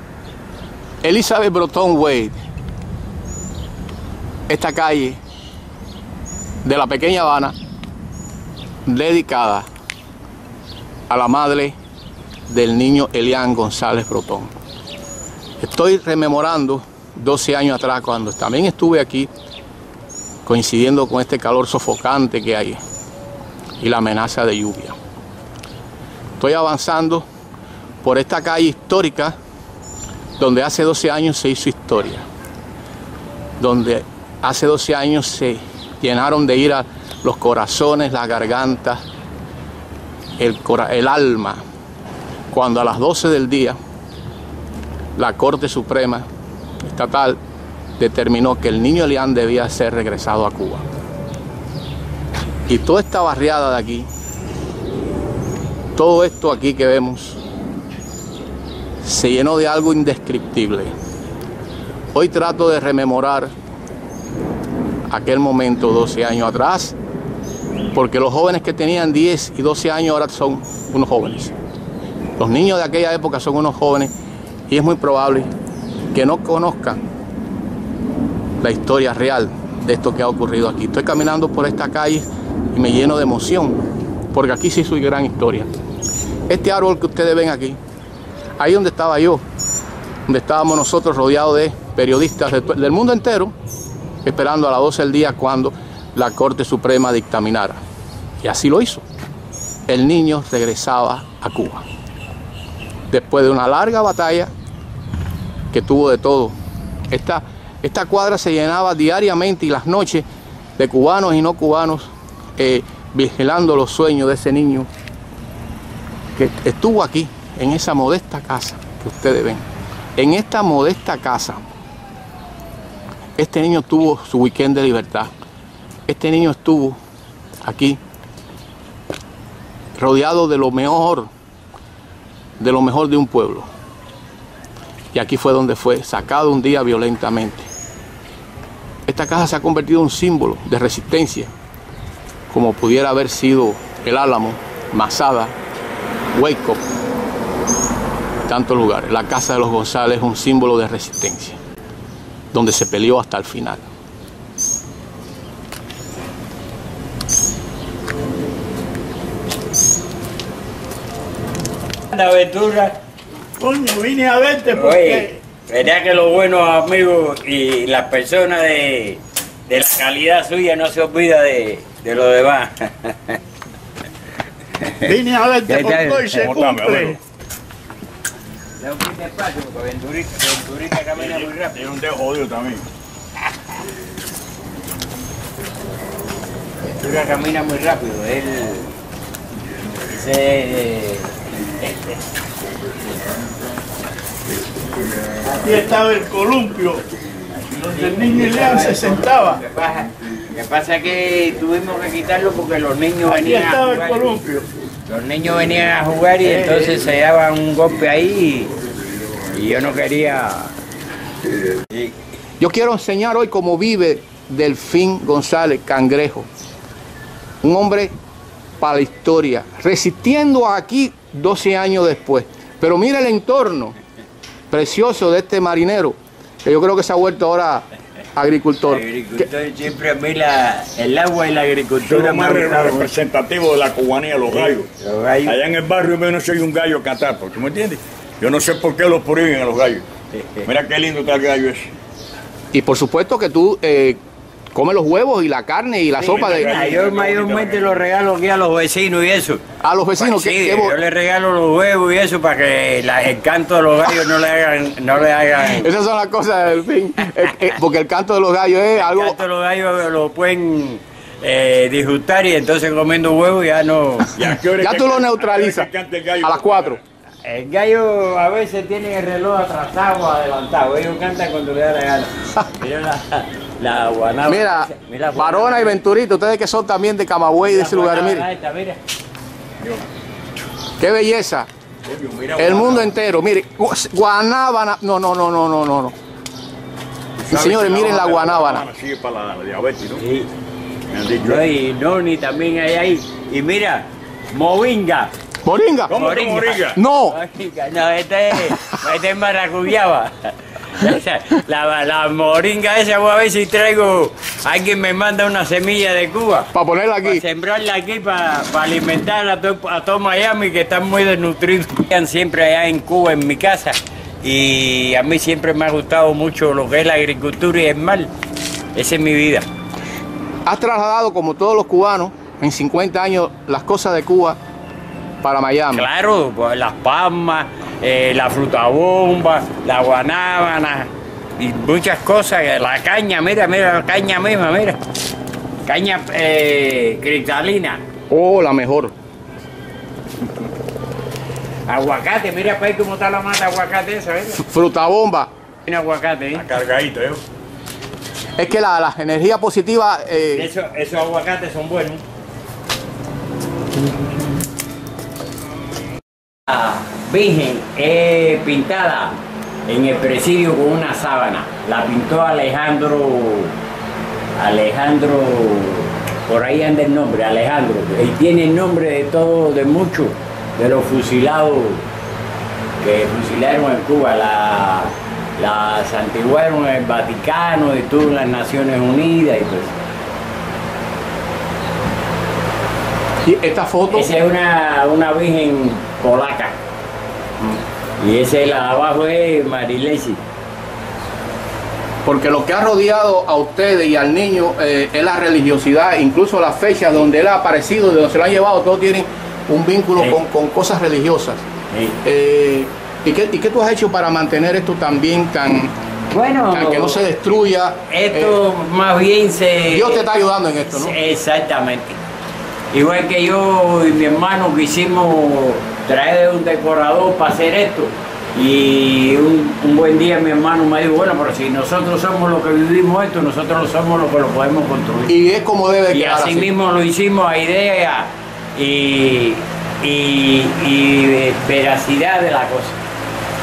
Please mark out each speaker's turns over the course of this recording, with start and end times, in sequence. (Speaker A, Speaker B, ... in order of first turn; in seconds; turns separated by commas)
Speaker A: 1.0-2.4, Speaker A: 4.5-5.2, Speaker A: 6.6-7.5, Speaker A: 8.8-9.7, Speaker A: 11.1-11.7, Speaker A: 12.5-14.5, Speaker A: 15.6-19.3, Speaker A: 20.4-22.8, Speaker A: 23.8-24.9, Speaker A: 26.4-27.2, Speaker A: 28.0-29.4, Speaker A: 30.4-32.2, Speaker A: 33.6-39.0, Speaker A: 40.4-41.6, Speaker A: 42.5-43.8, Speaker A: 45.1-46.2, Speaker A: 46.8-47.4, Speaker A: 48.0-50.8, Speaker A: 52.7-54.1, Speaker A: 55.9-57.4, Speaker A: 59.0-60.9, Speaker A: 62.1-63.5, Speaker A: 65.1-66.9, Speaker A: 67.9-71.5, Speaker A: 72.4-74.1, Speaker A: 74.7-75.5, Speaker A: 76.1-77.0, Speaker A: 78.6-85.7, Speaker A: 86.5-87.8, Speaker A: 88.6-89.4, Speaker A: 90.3-93.5, Speaker A: 94.2-97.8, Speaker A: 98.4-99.0, Speaker A: 99.9-101.8, Speaker A: 103.1-104.5, Speaker A: 105.7-106.5, Speaker A: 107.1-110.2, Speaker A: 110.8-114.9, Speaker A: 116.3-119.6, Speaker A: 120.2-121.6, Speaker A: 123.4-125.3, Speaker A: 126.1-127.0, Speaker A: 127.6-128.0, Speaker A: 129.9-131.3, Speaker A: 132.6-133.7, Speaker A: 135.1-137.7, Speaker A: 139.1-141.5, Speaker A: 142.5-145.5, Speaker A: 146.3-146.8, Speaker A: 148.4-151.6, Speaker A: 152.5-153.8, Speaker B: 162.1-163.0, Speaker C: 163.6-165.4, Speaker B: 164.7-173.4, Speaker C: 175.0-177.2, Speaker B: 175.7-176.5, Speaker D: 176.3-177.2, Speaker B: 178.8-181.8, Speaker D: 181.2-182.8, Speaker B: 186.9-188.9, Speaker B: 190.1-192.2, Speaker C: 195.5-197.0, Speaker B: 197.7-204.4, Speaker C: 197.8-199.6, Speaker C: 203.3-204.7, Speaker B: 205.1-208.7, Speaker B: 209.5-210.7, Speaker A: 212.6-216.5, Speaker A: 217.6-218.1, Speaker A: 218.8-223.9, Speaker A: 224.7-229.4, Speaker B: 228.9-233.1, Speaker D: 232.1-234.9, Speaker B: 234.5-235.6, Speaker D: 235.4-240.0, Speaker B: 240.3-240.7, Speaker D: 240.6-241.9, Speaker A: 242.7-244.2, Speaker A: 244.7-246.7, Speaker D: 246.2-248.0, Speaker B: 246.4-249.6, Speaker A: 249.8-250.9, Speaker B: 250.2-255.9, Speaker A: 255.8-259.4, Speaker B: 259.0-264.4, Speaker D: 264.3-267.0, Speaker A: 264.8-265.9, Speaker A: 266.4-267.0, Speaker B: 267.4-276.0, Speaker A: 274.5-278.4, Speaker B: 277.6-279.0, Speaker D: 279.8-280.1, Speaker A: 281.0-281.7, Speaker D: 282.1-283.1, Speaker A: 282.6-286.1, Speaker D: 287.4-290.2, Speaker A: 287.5-288.8, Speaker B: 290.2-290.5, Speaker D: 291.1-291.6, Speaker B: 291.4-295.3, Speaker A: 295.6-296.1, Speaker D: 296.1-297.0, Speaker B: 296.1-306.7, Speaker A: 296.9-297.4, Speaker A: 306.7-307.4, Speaker B: 307.2-318.3, Speaker B: 318.9-319.6, Speaker A: 320.6-324.6, Speaker A: 325.4-326.1, Speaker B: 325.9-335.0, Speaker B: 335.9-338.0, Speaker A: 338.3-339.1, Speaker B: 341.9-344.6, Speaker A: 344.6-345.5, Speaker B: 345.8-346.6, Speaker D: 346.5-347.4, Speaker A: 348.6-350.7, Speaker B: 350.5-352.2, Speaker B: 356.7-363.7, Speaker B: 364.6-372.0, Speaker B: 373.0-379.9, Speaker A: 383.4-384.3, Speaker B: 384.1-386.8, Speaker B: 388.2-390.4, Speaker A: 392.2-401.6, Speaker B: 401.9-402.2, Speaker A: 402.2-405.9, Speaker B: 406.3-407.2, Speaker A: 406.7-408.6, Speaker B: 408.1-410.3, Speaker A: 409.9-411.1, Speaker B: 410.9-412.1, Speaker B: 412.9-425.3, Speaker A: 425.3-426.7, Speaker B: 426.1-432.9